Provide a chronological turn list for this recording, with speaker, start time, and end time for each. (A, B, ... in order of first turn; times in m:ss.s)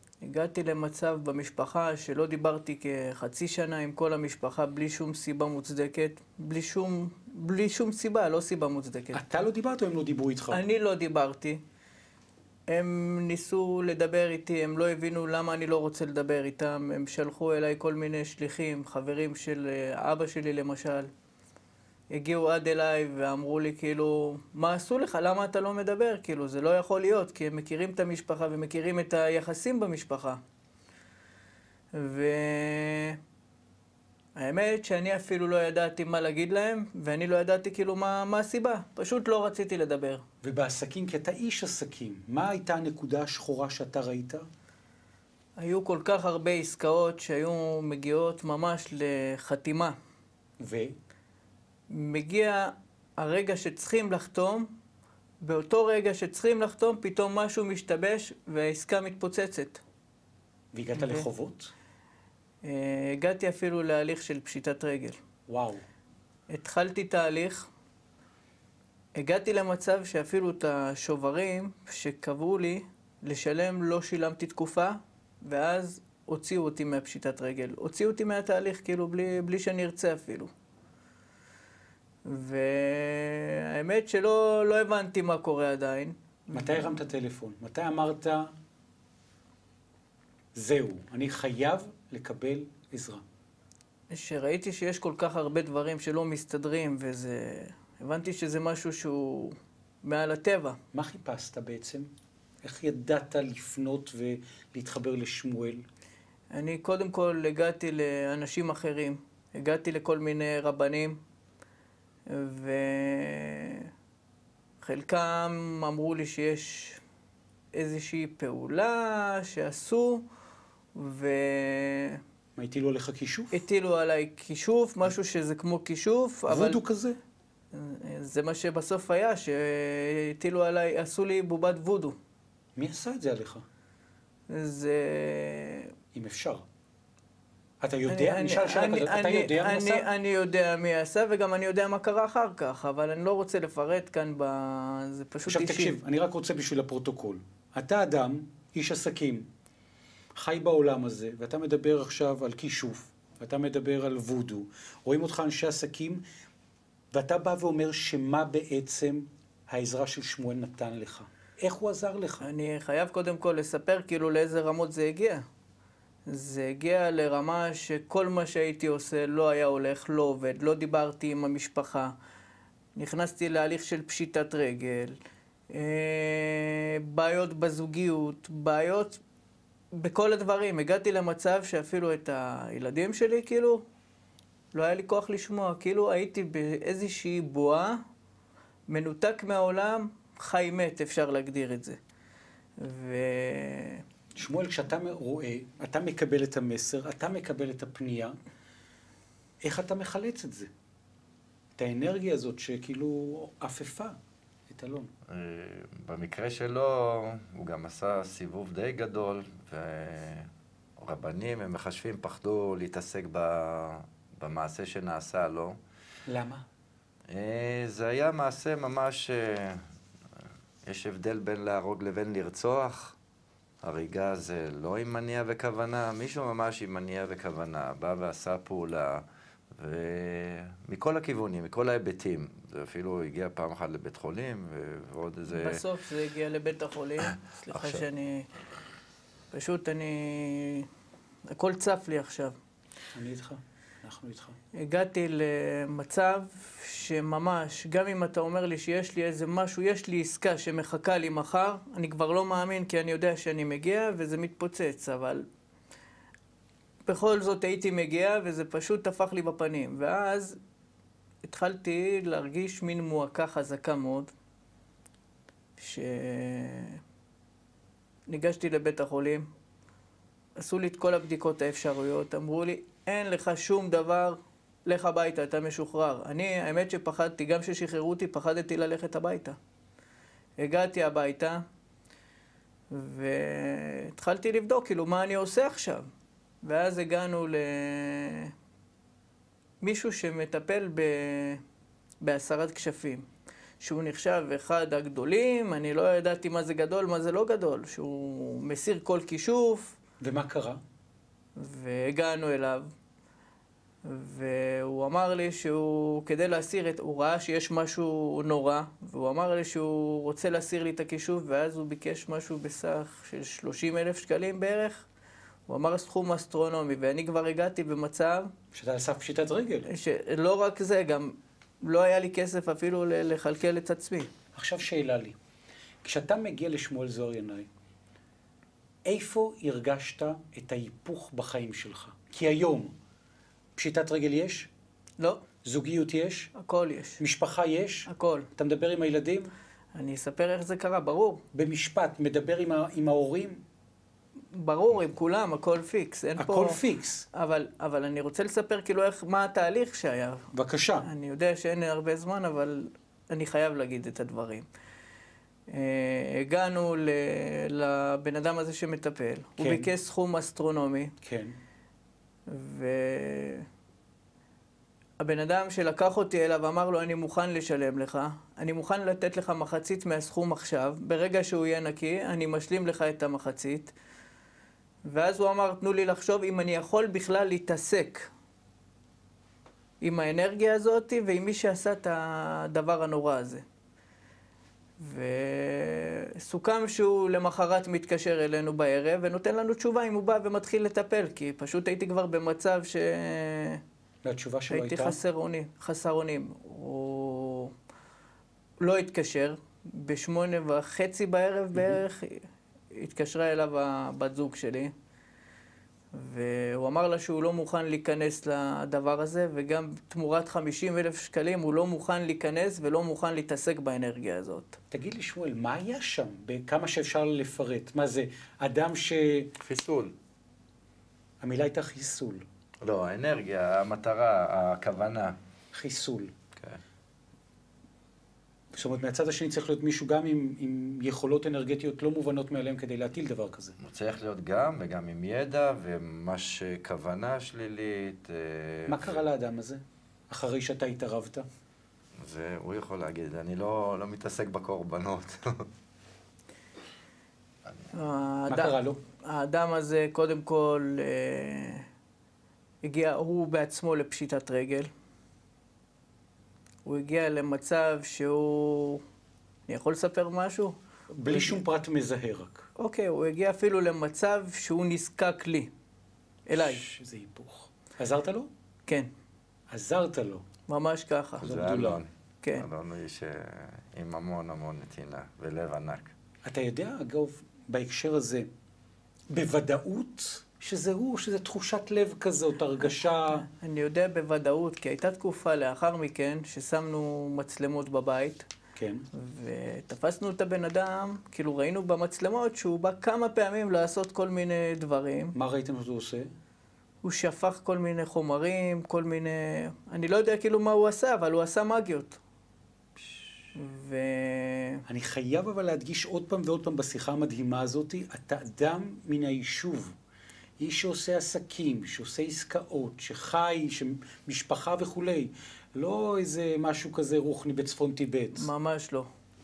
0:00.2-0:09.2 A
0:09.2-0:10.6 B
0:10.5-0:11.6 A
0:12.7-0:21.1 A
0:22.1-0:30.4 A
0:31.9-0:33.2 A
0:34.4-0:40.2 A
0:40.4-0:44.4 B
0:45.6-0:50.0 A
0:50.6-0:51.0 B
0:51.9-0:54.7 A
0:55.4-0:59.8 A
1:00.7-1:01.7 B
1:01.0-1:01.3 A
1:02.6-1:05.2 A
1:05.5-1:05.8 B
1:06.5-1:07.7 A
1:09.2-1:20.5 A
1:22.2-1:26.9 A
1:26.5-1:28.5 B
1:30.6-1:33.2 B
1:34.1-1:40.8 A
1:40.9-1:42.1 B
1:42.6-1:45.9 B
1:46.5-1:51.2 A
1:52.3-1:53.9 A
1:54.8-1:57.0 A
1:57.8-2:00.2 A
2:01.0-2:02.2 A
2:02.6-2:03.6 B
2:03.5-2:06.8 A
2:06.5-2:07.2 B
2:07.7-2:12.2 A
2:12.8-2:13.6 B
2:14.5-2:15.9 A
2:16.1-2:16.6 B
2:17.8-2:20.1 B
2:18.1-2:26.0 A
2:25.5-2:29.5 B
2:30.4-2:36.2 B
2:37.1-2:42.5 B
2:42.4-2:45.4 A
2:46.3-2:52.1 A
2:53.0-2:55.2 A
2:55.7-2:59.2 A
3:00.0-3:03.8 A
3:04.7-3:08.0 A
3:08.9-3:12.0 A
3:12.8-3:14.0 A
3:14.4-3:18.4 B
3:19.6-3:20.7 B
3:21.8-3:24.2 B
3:24.7-3:25.1 B
3:25.3-3:35.8 C
3:36.3-3:36.6 B
3:37.3-3:39.8 C
3:40.8-3:43.2 C
3:43.8-3:49.2 C
3:49.8-3:55.8 C
3:55.5-3:58.5 A
3:57.7-3:58.0 C
3:59.5-4:00.9 A
4:01.5-4:02.6 A
4:03.1-4:04.6 B
4:04.8-4:15.5 A
4:17.1-4:20.6 A
4:21.4-4:24.3 A
4:25.8-4:27.0 A
4:28.3-4:29.5 A
4:30.6-4:39.6 A
4:40.6-4:41.6 A
4:42.9-4:46.1 A
4:46.6-4:48.5 A
4:49.8-4:51.6 A
4:52.2-4:53.3 A
4:53.8-5:00.0 A
5:00.2-5:00.8 B
5:01.6-5:02.9 A
5:04.0-5:15.1 A
5:15.7-5:18.5 A
5:18.7-5:19.9 B
5:19.9-5:24.3 A
5:24.6-5:25.4 B
5:26.0-5:27.7 B
5:29.0-5:32.9 B
5:33.8-5:34.7 B
5:35.2-5:35.5 A
5:35.6-5:36.5 B
5:36.6-5:37.2 A
5:37.2-5:39.5 B
5:38.1-5:38.5 A
5:40.0-5:41.4 A
5:41.5-5:43.6 B
5:44.5-5:46.8 A
5:46.4-5:47.3 B
5:47.3-5:50.5 A
5:50.5-5:51.1 B
5:51.0-5:54.7 A
5:55.7-6:01.1 A
5:59.6-5:59.9 B
6:01.2-6:01.6 B
6:02.5-6:03.7 A
6:05.2-6:13.9 A
6:15.1-6:18.3 A
6:20.0-6:23.6 A
6:25.0-6:33.8 A
6:34.2-6:35.2 B
6:34.7-6:37.7 A
6:38.8-6:44.9 A
6:46.1-6:54.8 A
6:54.9-6:59.5 B
6:59.6-7:00.1 C
7:01.4-7:02.5 B
7:02.8-7:05.4 C
7:05.7-7:06.3 B
7:08.7-7:13.8 B
7:13.8-7:19.2 C
7:18.9-7:21.5 B
7:22.2-7:25.7 C
7:27.9-7:31.8 A
7:28.5-7:29.0 B
7:32.8-7:34.9 A
7:36.8-7:39.0 A
7:39.7-7:41.6 A
7:41.2-7:42.7 B
7:42.8-7:45.7 A
7:46.5-7:46.8 A
7:46.5-7:48.5 B
7:49.7-7:50.5 B
7:50.7-7:51.4 A
7:51.4-7:56.1 C
7:51.4-7:52.0 B
7:56.4-7:58.5 B
7:59.3-8:03.4 B
8:02.9-8:08.5 A
8:08.8-8:09.1 B
8:09.1-8:15.4 A
8:15.4-8:16.3 B
8:17.0-8:22.2 A
8:23.6-8:24.8 A
8:24.9-8:30.0 B
8:30.6-8:38.5 B
8:38.4-8:39.1 A